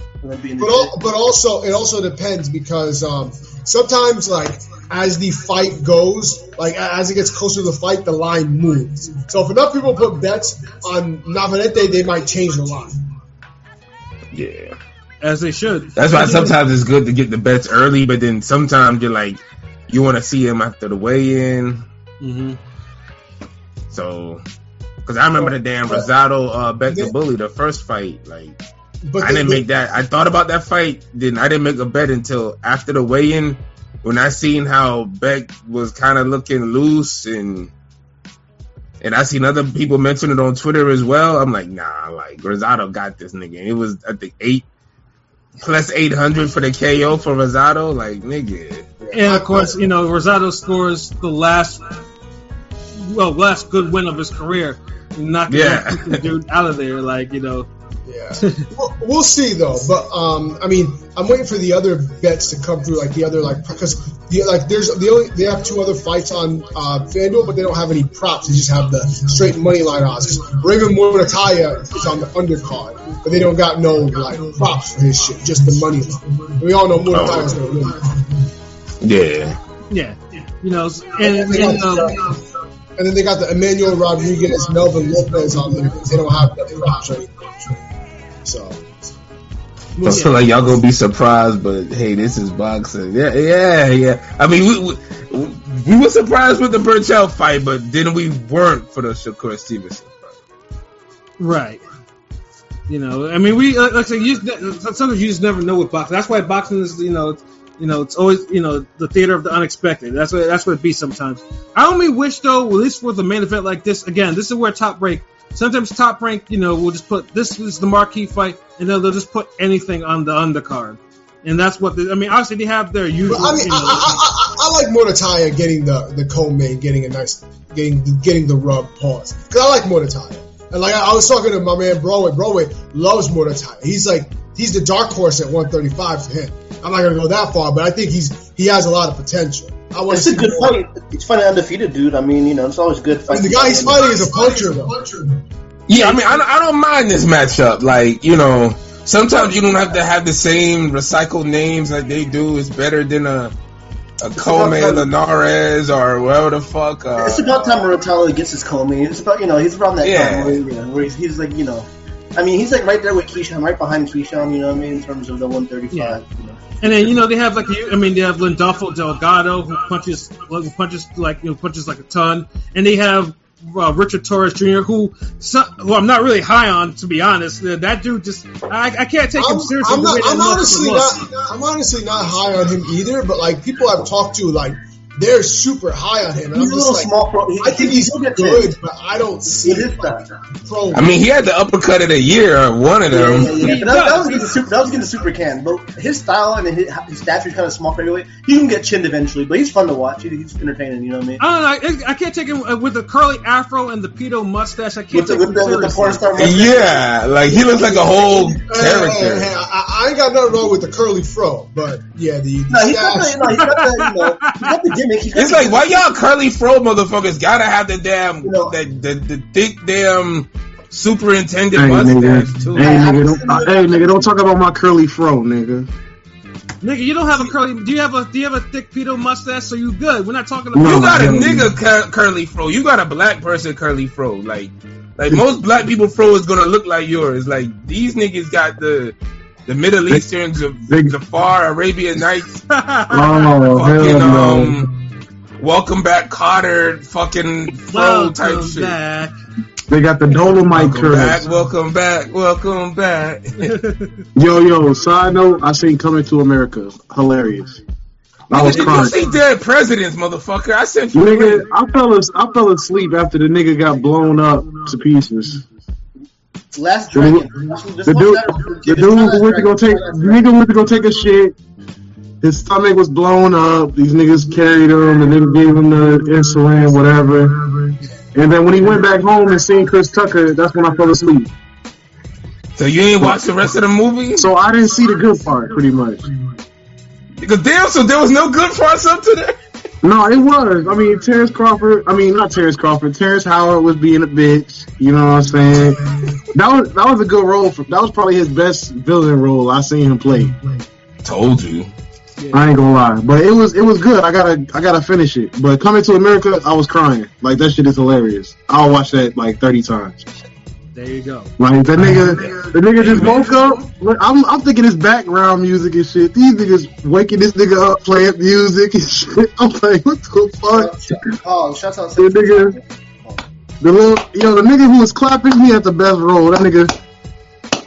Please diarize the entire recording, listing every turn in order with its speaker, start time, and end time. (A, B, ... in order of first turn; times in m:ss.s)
0:00.2-0:01.0 A
0:00.6-0:13.0 B
0:14.3-0:14.8 C
0:15.2-0:16.5 D
0:16.0-0:21.9 C
0:22.2-0:22.6 D
0:23.9-0:24.4 C
0:25.1-0:28.6 C
0:25.4-0:26.1 B
0:29.0-0:29.6 B
0:29.2-0:37.7 C
0:39.0-0:44.7 C
0:45.6-0:48.9 C
0:49.0-0:49.8 B
0:49.1-0:51.8 D
0:53.0-0:57.7 D
0:55.5-0:56.2 C
0:58.1-1:18.2 B
0:58.4-0:58.7 D
1:17.1-1:17.5 C
1:19.0-1:19.6 C
1:19.9-1:22.2 D
1:21.2-1:22.4 B
1:23.0-1:27.7 B
1:28.4-1:28.8 B
1:30.0-1:30.5 B
1:30.0-1:40.4 C
1:30.1-1:30.4 D
1:41.4-1:41.8 D
1:42.9-2:04.2 D
2:03.3-2:20.8 B
2:20.1-2:24.1 A
2:23.3-2:25.4 B
2:25.9-2:33.5 C
2:25.9-2:26.4 D
2:34.2-2:37.5 C
2:34.4-2:35.0 B
2:37.2-2:46.7 A
2:40.0-2:40.6 C
2:45.9-2:46.2 D
2:46.8-3:01.2 D
2:59.4-3:11.1 B
3:06.5-3:08.8 A
3:09.6-3:10.2 A
3:10.9-3:13.8 C
3:13.1-3:21.4 A
3:13.6-3:14.6 D
3:21.4-3:26.6 D
3:25.1-3:27.1 A
3:26.4-3:29.5 C
3:27.8-3:33.7 B
3:32.7-3:36.0 A
3:33.6-3:34.8 D
3:35.3-3:43.1 C
3:38.4-3:38.8 A
3:41.7-3:45.9 E
3:42.8-3:44.3 A
3:46.8-3:51.5 D
3:50.7-3:51.7 E
3:50.8-3:59.2 C
3:59.7-4:02.6 C
4:00.9-4:01.2 E
4:02.7-4:04.0 D
4:03.1-4:04.9 E
4:03.8-4:04.9 C
4:05.6-4:09.0 C
4:07.8-4:09.4 D
4:09.9-4:11.4 E
4:10.6-4:13.8 C
4:13.6-4:14.2 D
4:14.4-4:17.8 E
4:18.5-4:19.2 E
4:18.5-4:21.7 C
4:18.6-4:19.1 D
4:21.1-4:25.6 E
4:26.7-4:30.4 A
4:27.2-4:27.5 E
4:28.0-4:31.6 E
4:32.4-4:37.6 E
4:38.3-4:41.5 E
4:42.8-4:44.5 C
4:44.4-4:46.3 E
4:47.4-4:49.6 C
4:50.0-5:00.6 E
5:01.2-5:01.9 C
5:02.4-5:02.6 D
5:02.5-5:10.2 E
5:11.0-5:11.5 D
5:11.6-5:21.2 E
5:13.0-5:13.4 D
5:20.7-5:23.5 A
5:22.2-5:22.8 E
5:23.8-5:26.9 E